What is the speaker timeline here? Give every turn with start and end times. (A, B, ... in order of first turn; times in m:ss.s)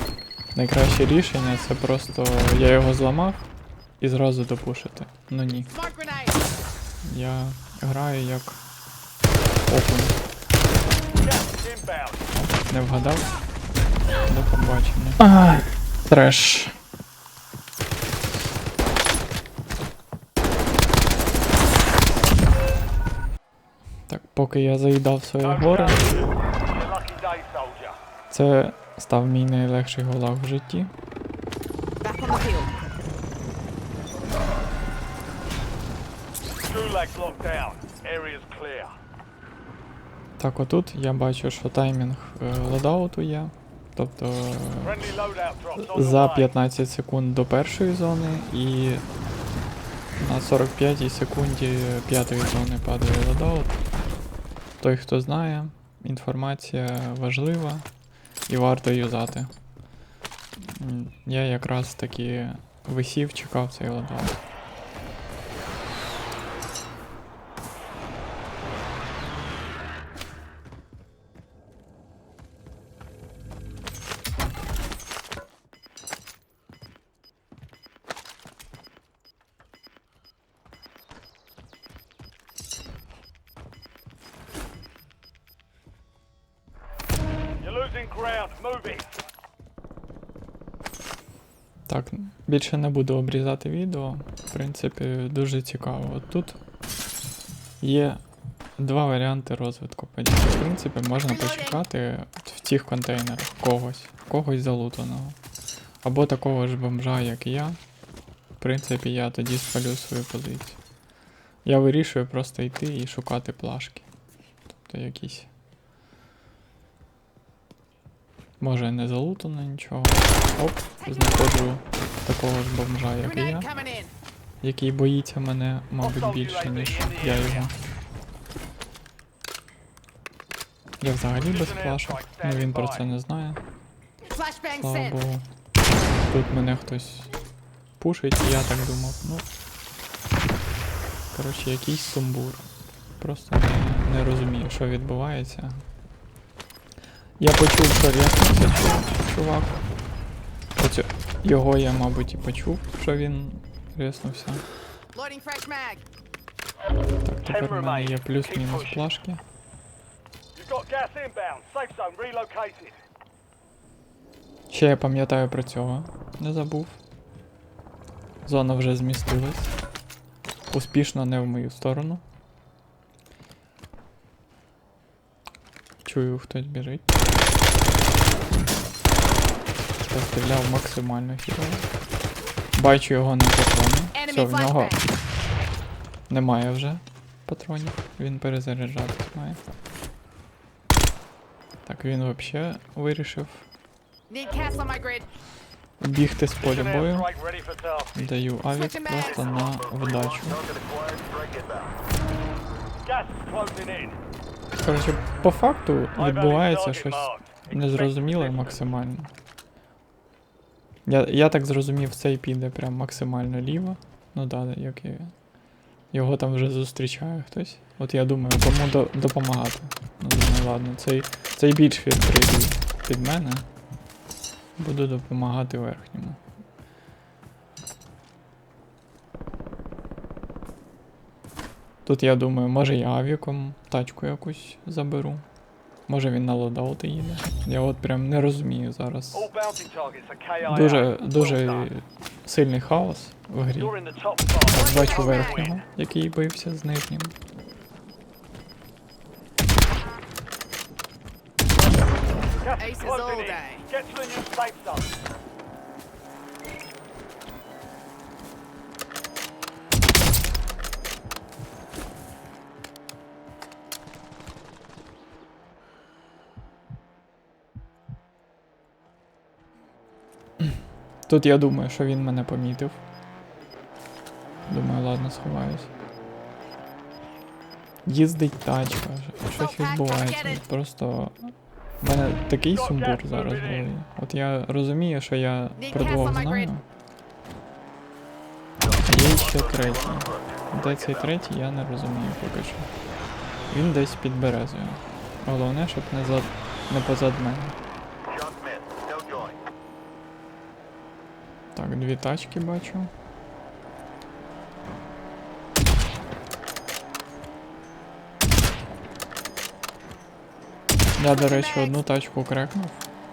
0:00.5-0:05.7 A
0:05.7-0:06.4 B
0:07.0-0:08.6 A
0:09.7-0:10.2 A
0:11.2-0:12.2 C
0:12.3-0:13.3 A
0:14.3-0:16.7 A
0:24.1-0:26.0 A
0:25.4-0:28.0 C
0:28.3-0:30.9 A
0:32.0-0:32.7 B
0:36.7-0:38.9 C
0:40.4-0:45.0 A
0:44.8-0:46.5 C
0:45.8-0:49.0 A
0:50.2-0:53.8 A
0:54.8-0:57.9 A
0:58.5-0:59.5 A
1:00.6-1:04.4 A
1:27.6-1:29.1 C
1:31.9-1:36.6 A
1:37.8-1:38.2 A
1:38.8-1:45.4 A
1:41.3-1:41.8 B
1:46.0-1:47.8 A
1:48.6-1:50.8 A
1:51.6-1:54.1 A
1:54.8-1:55.5 A
1:58.6-2:03.7 A
2:01.0-2:01.6 B
2:03.2-2:04.1 B
2:04.6-2:07.8 A
2:06.0-2:07.7 C
2:11.0-2:13.6 A
2:11.3-2:13.1 C
2:14.3-2:15.2 B
2:14.8-2:15.5 A
2:16.1-2:17.3 A
2:18.0-2:19.4 A
2:21.3-2:22.7 A
2:23.2-2:25.8 A
2:27.4-2:29.8 A
2:30.8-2:34.6 A
2:35.1-2:36.0 B
2:37.2-2:39.4 A
2:37.4-2:39.1 C
2:40.6-2:43.0 C
2:44.7-2:47.0 A
2:48.4-2:49.8 A
2:50.7-2:52.2 A
2:56.0-2:57.1 A
3:00.1-3:01.9 A
3:02.8-3:05.0 A
3:04.1-3:05.1 B
3:06.3-3:09.6 A
3:11.8-3:13.7 A
3:14.3-3:15.3 B
3:16.0-3:17.3 A
3:16.6-3:18.3 C
3:18.1-3:20.8 A
3:18.7-3:19.5 B
3:23.0-3:24.2 C
3:24.8-3:29.3 A
3:26.1-3:28.8 C
3:31.1-3:35.3 A
3:36.1-3:43.7 A
3:44.8-3:46.4 A
3:52.0-3:55.4 A
3:56.1-3:59.5 A
3:59.3-4:01.9 C
4:00.6-4:04.0 A
4:03.8-4:05.8 C
4:04.7-4:07.4 A
4:04.7-4:05.7 B
4:12.6-4:15.1 C
4:12.8-4:13.9 B
4:31.3-4:33.0 A
4:34.7-4:35.9 A
4:38.0-4:46.9 A
4:39.5-4:40.6 B
4:42.7-4:43.9 C
4:45.8-4:46.7 B
4:49.0-4:52.9 A
4:53.7-4:57.8 A
5:01.7-5:03.1 A
5:11.2-5:13.1 A
5:11.2-5:12.0 B